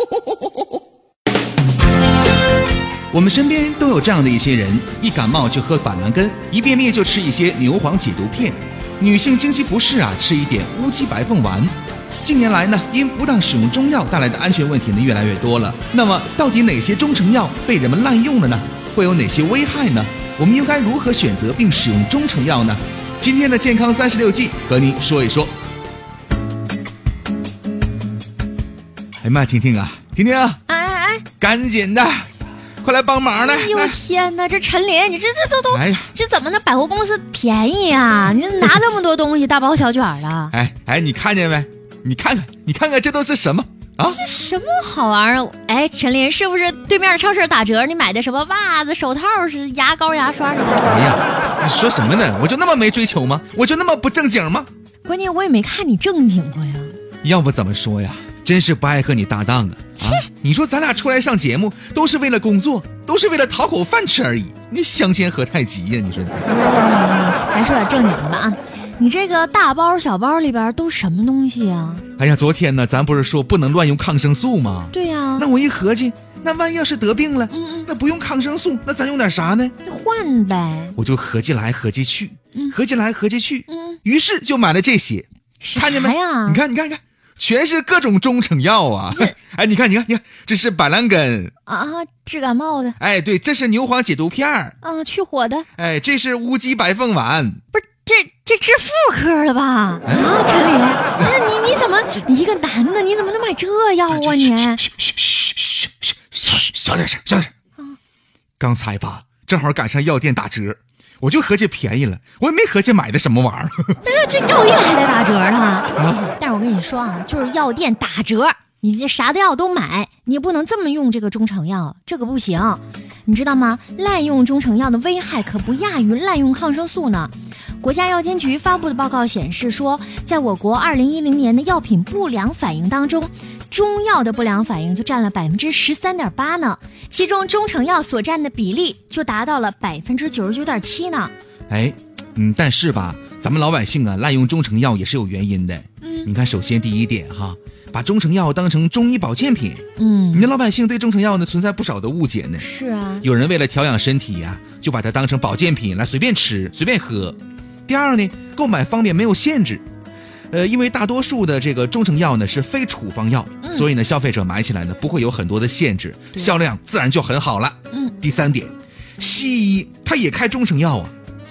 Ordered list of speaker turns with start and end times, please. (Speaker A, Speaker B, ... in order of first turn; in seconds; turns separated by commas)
Speaker A: 3.1-25.5, Speaker A: 29.2-30.6, Speaker B: 30.7-31.2, Speaker A: 31.4-34.0, Speaker B: 33.4-40.5, Speaker A: 35.7-36.1, Speaker A: 40.5-44.2, Speaker B: 44.0-51.0, Speaker A: 50.8-54.7, Speaker B: 55.0-57.0, Speaker A: 57.2-66.5, Speaker B: 60.0-60.3, Speaker B: 66.5-72.0, Speaker A: 72.2-79.8, Speaker B: 74.9-75.5, Speaker B: 77.5-77.9, Speaker B: 79.8-81.0, Speaker A: 81.0-91.5, Speaker B: 83.7-84.0, Speaker B: 85.6-86.6, Speaker B: 91.7-93.0, Speaker A: 93.0-94.8, Speaker B: 94.8-95.7, Speaker A: 95.8-97.6, Speaker B: 97.7-104.9, Speaker A: 100.1-100.3, Speaker A: 104.2-107.5, Speaker A: 108.6-114.0, Speaker B: 114.0-141.3, Speaker A: 116.0-116.3, Speaker A: 141.7-152.7, Speaker B: 146.0-146.3, Speaker B: 150.0-150.5, Speaker B: 152.6-153.3, Speaker A: 153.2-159.8, Speaker A: 160.5-171.1, Speaker B: 163.6-163.9